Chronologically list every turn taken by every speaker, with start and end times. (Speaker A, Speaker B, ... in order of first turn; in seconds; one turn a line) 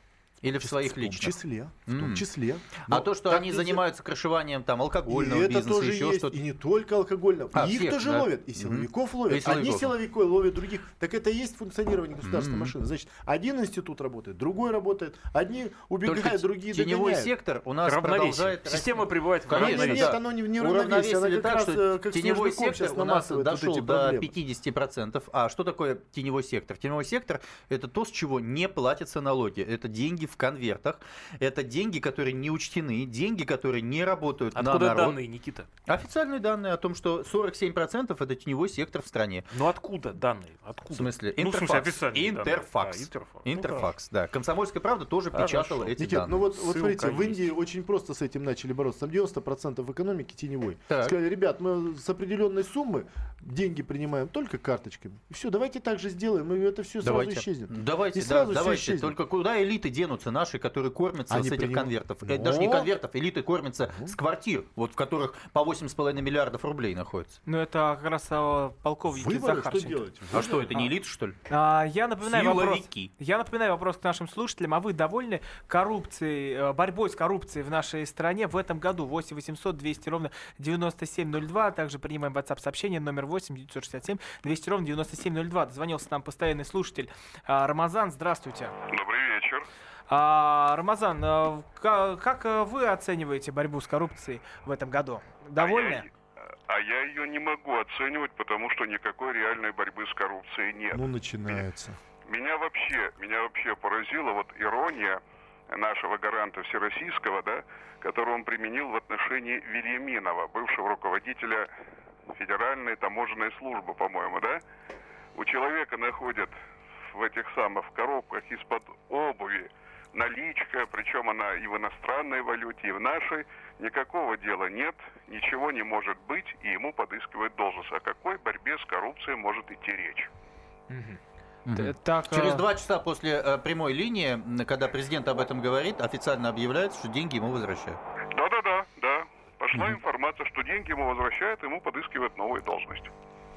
Speaker A: 0.4-2.2
Speaker B: 0.6-3.8
Speaker A: 2.8-6.3
Speaker B: 5.1-17.3
Speaker A: 7.5-9.9
Speaker A: 12.2-12.7
Speaker A: 16.0-35.2
Speaker C: 17.8-20.1
Speaker B: 19.5-24.3
Speaker C: 34.5-35.7
Speaker A: 35.9-39.5
Speaker C: 39.5-43.9
Speaker A: 40.9-46.4
Speaker C: 45.3-47.5
Speaker B: 46.0-59.1
Speaker A: 50.9-51.1
Speaker A: 57.0-67.4
Speaker B: 61.3-62.9
Speaker D: 67.5-70.0
Speaker B: 69.1-70.8
Speaker A: 70.3-71.4
Speaker D: 71.5-88.7
Speaker A: 72.2-73.1
Speaker E: 88.9-89.6
Speaker D: 90.1-96.1
Speaker E: 95.6-96.1
Speaker E: 96.7-101.6
Speaker B: 100.9-102.0
Speaker E: 102.3-105.2
Speaker E: 105.7-111.7
Speaker E: 112.3-114.6
Speaker E: 115.3-116.5
Speaker E: 117.1-130.3
Speaker D: 130.9-131.2
Speaker A: 131.7-138.0
Speaker D: 131.7-132.6
Speaker E: 138.3-143.1